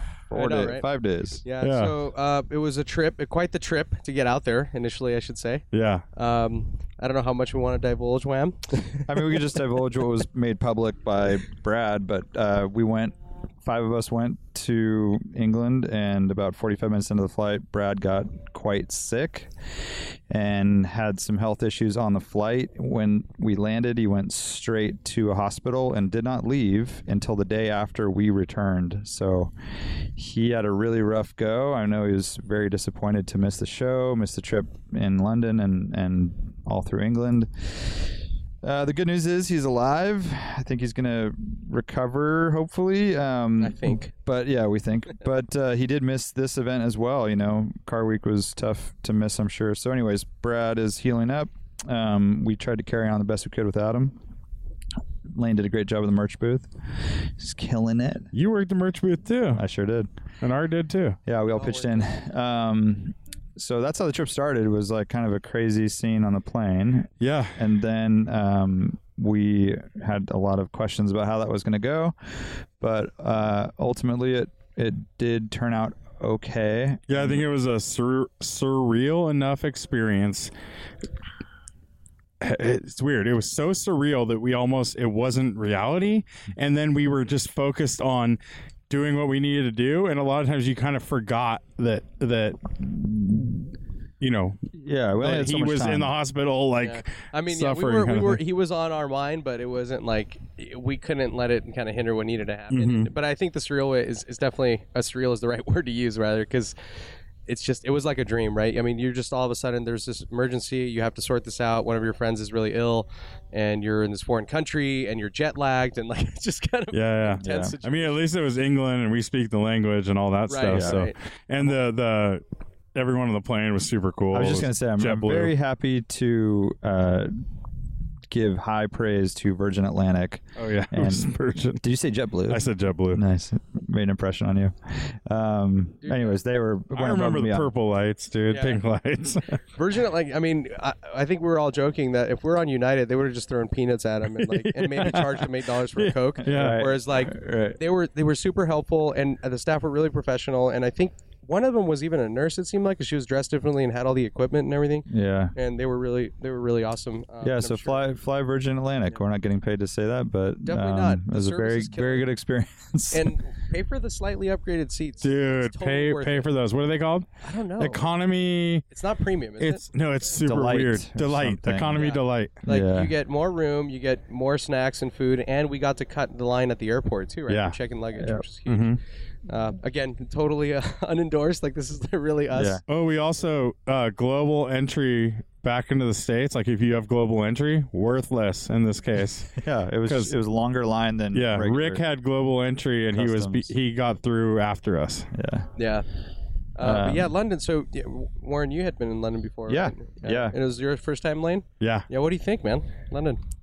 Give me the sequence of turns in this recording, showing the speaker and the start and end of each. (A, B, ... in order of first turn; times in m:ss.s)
0:00.3-0:01.4 A
0:00.3-0:00.8 B
0:01.4-0:09.4 B
0:01.6-0:01.9 C
0:05.7-0:06.0 C
0:09.1-0:19.5 A
0:20.3-0:29.5 A
0:30.2-0:38.1 A
0:38.6-0:54.2 A
0:43.6-0:44.1 B
0:55.3-0:58.3 A
0:58.3-0:59.6 C
0:59.5-1:00.1 A
1:00.4-1:01.2 C
1:01.2-1:17.4 A
1:01.6-1:02.2 B
1:07.2-1:07.6 C
1:17.1-1:20.5 C
1:22.4-1:32.6 C
1:34.2-1:34.6 C
1:34.7-1:36.1 A
1:35.2-1:38.4 C
1:36.8-1:46.7 B
1:42.7-1:43.1 C
1:47.4-1:58.2 B
1:56.9-2:02.4 C
1:57.4-1:57.7 A
2:00.5-2:01.7 B
2:00.7-2:01.1 A
2:02.9-2:05.5 C
2:04.3-2:07.3 A
2:08.3-2:17.7 A
2:10.6-2:11.8 C
2:12.5-2:13.2 C
2:16.0-2:16.4 B
2:16.9-2:19.6 C
2:18.5-2:18.8 B
2:19.8-2:38.1 B
2:24.3-2:26.8 C
2:26.4-2:27.8 A
2:35.1-2:35.5 A
2:37.4-2:43.4 A
2:40.6-2:42.3 B
2:43.1-2:46.5 B
2:45.2-2:47.3 C
2:47.4-2:48.0 B
2:47.8-2:48.8 C
2:48.9-2:49.8 B
2:49.6-2:52.6 C
2:50.4-2:52.1 A
2:51.9-3:02.8 B
2:52.6-2:53.1 A
2:57.5-2:57.8 C
2:58.2-2:58.4 A
2:58.7-2:59.0 C
3:02.5-3:02.8 A
3:02.9-3:10.3 C
3:09.5-3:12.0 A
3:11.3-3:15.3 C
3:13.1-3:13.7 A
3:15.3-3:15.7 A
3:15.8-3:16.0 B
3:16.8-3:23.4 B
3:16.8-3:17.3 A
3:19.7-3:20.6 A
3:21.8-3:22.1 C